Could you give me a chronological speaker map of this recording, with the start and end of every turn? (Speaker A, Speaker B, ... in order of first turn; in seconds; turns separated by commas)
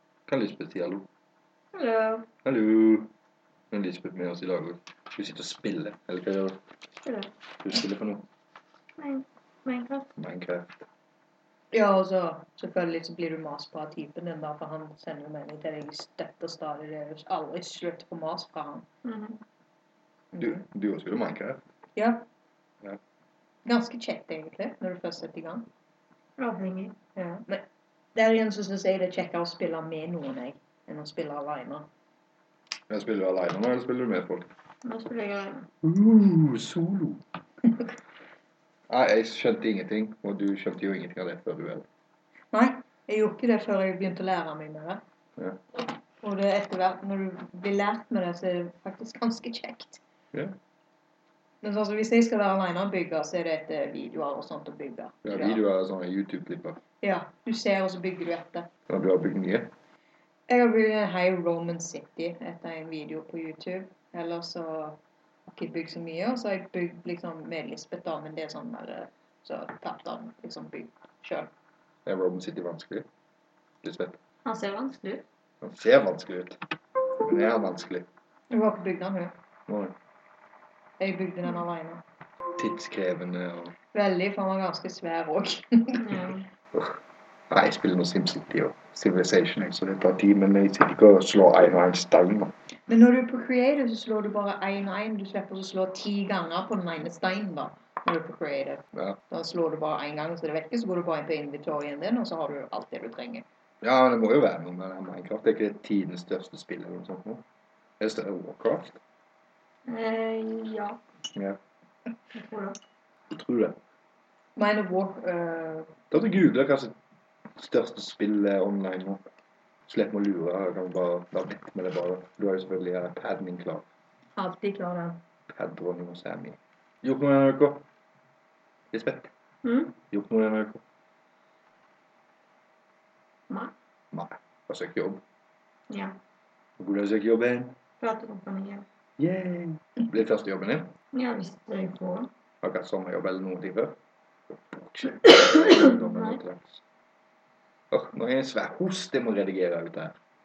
Speaker A: 0.3-1.1, Speaker B: 1.7-2.3, Speaker A: 2.4-3.1, Speaker A: 3.7-6.6, Speaker B: 7.0-7.3, Speaker A: 7.6-8.3, Speaker B: 9.0-10.1, Speaker A: 10.2-10.9, Speaker C: 11.7-18.9, Speaker B: 19.0-19.4, Speaker C: 20.3-20.6, Speaker A: 20.4-21.6, Speaker C: 22.0-22.3, Speaker C: 23.7-25.7, Speaker B: 26.4-27.0, Speaker C: 27.2-31.9, Speaker A: 32.9-34.5, Speaker B: 34.8-35.7, Speaker A: 35.8-37.2, Speaker A: 38.9-41.9, Speaker C: 42.5-45.0, Speaker C: 46.2-50.0, Speaker C: 51.6-55.6, Speaker A: 55.2-56.8, Speaker C: 57.0-58.7, Speaker A: 58.9-59.7, Speaker C: 60.5-71.5, Speaker A: 72.1-73.0, Speaker A: 73.8-74.2, Speaker B: 74.5-75.2, Speaker A: 75.6-76.6, Speaker A: 77.2-78.1, Speaker C: 78.5-79.3, Speaker A: 79.7-80.0, Speaker C: 81.0-82.0, Speaker A: 82.6-83.8, Speaker C: 83.9-86.1, Speaker B: 86.0-86.5, Speaker A: 86.7-87.0, Speaker A: 87.5-92.5, Speaker C: 92.9-103.5, Speaker A: 98.9-99.2, Speaker A: 103.8-107.4, Speaker A: 108.0-109.0, Speaker B: 109.9-111.0, Speaker B: 112.3-112.8, Speaker A: 113.3-113.8, Speaker C: 114.6-115.9, Speaker A: 116.1-116.9, Speaker A: 117.6-119.2, Speaker A: 119.9-123.9, Speaker C: 124.4-125.2, Speaker A: 125.5-127.8, Speaker A: 128.9-129.3, Speaker B: 129.6-130.0, Speaker A: 130.1-130.8, Speaker A: 134.1-135.2, Speaker B: 135.9-136.2, Speaker A: 136.8-137.8, Speaker B: 138.0-138.9, Speaker A: 139.2-140.9, Speaker B: 141.1-142.3, Speaker A: 142.6-144.0, Speaker A: 144.5-146.8, Speaker B: 145.3-146.4, Speaker A: 147.9-150.2